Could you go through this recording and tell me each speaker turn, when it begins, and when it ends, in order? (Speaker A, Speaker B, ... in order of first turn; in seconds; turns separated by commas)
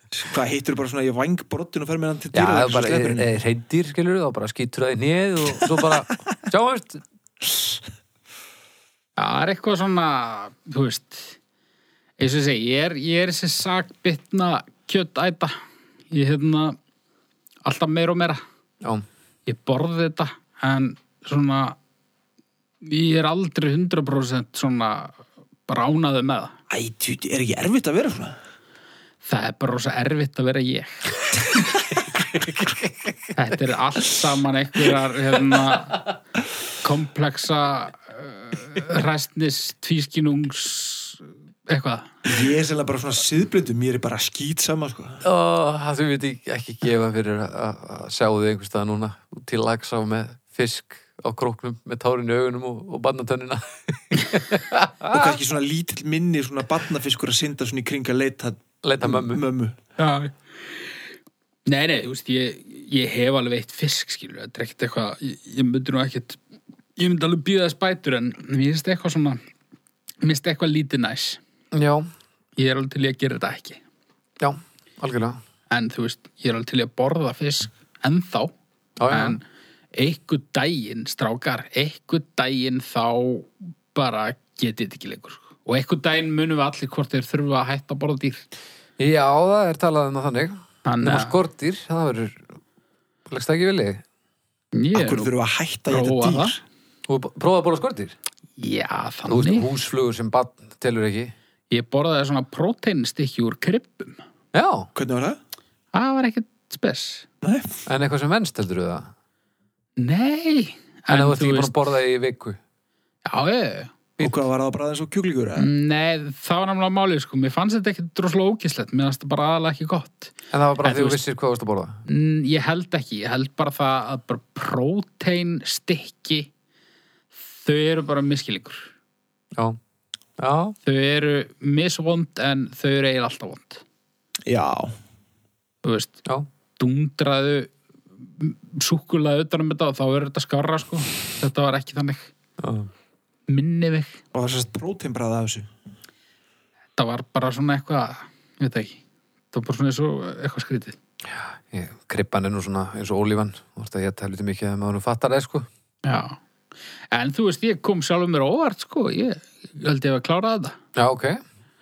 Speaker A: 0.1-3.3, Speaker B: 2.3-7.0, Speaker C: 9.2-11.3, Speaker C: 12.2-15.5, Speaker C: 16.1-16.8, Speaker C: 17.6-18.4, Speaker C: 19.5-21.8, Speaker C: 22.8-26.5, Speaker A: 26.7-28.4, Speaker C: 29.2-31.0, Speaker C: 33.3-36.0, Speaker C: 36.8-42.3, Speaker A: 42.2-45.2, Speaker B: 45.2-55.4, Speaker A: 55.1-59.8, Speaker B: 58.8-59.4, Speaker C: 60.0-60.3, Speaker C: 61.6-66.4, Speaker C: 67.0-69.4, Speaker C: 70.2-71.4, Speaker B: 71.7-72.1, Speaker C: 72.6-73.8, Speaker B: 74.4-75.4, Speaker C: 75.7-78.5, Speaker B: 79.0-79.4, Speaker C: 79.1-79.4, Speaker C: 79.9-88.5, Speaker B: 89.0-92.4, Speaker C: 90.8-91.4, Speaker B: 93.3-94.0, Speaker C: 94.7-95.3, Speaker A: 94.9-96.6, Speaker C: 95.9-96.5, Speaker B: 97.1-98.1, Speaker C: 98.6-99.7, Speaker B: 99.3-101.3, Speaker C: 101.7-104.2, Speaker B: 104.5-104.9, Speaker A: 104.9-105.4, Speaker C: 105.9-107.2, Speaker A: 107.4-107.8, Speaker B: 107.9-109.1, Speaker C: 110.0-111.7, Speaker B: 111.1-112.6, Speaker C: 113.2-113.9, Speaker B: 114.2-114.4, Speaker A: 114.2-115.7, Speaker C: 115.6-121.2, Speaker B: 120.5-122.0, Speaker C: 122.1-126.5, Speaker C: 127.5-128.9, Speaker B: 130.4-130.8, Speaker C: 130.8-133.8, Speaker A: 134.4-134.9, Speaker C: 135.8-136.2, Speaker C: 136.8-142.3, Speaker B: 142.6-142.9, Speaker C: 143.5-144.2, Speaker A: 144.3-145.7, Speaker C: 147.0-149.0, Speaker C: 149.5-150.9, Speaker B: 151.3-155.7, Speaker C: 156.0-156.4, Speaker C: 157.1-160.8, Speaker B: 160.9-161.4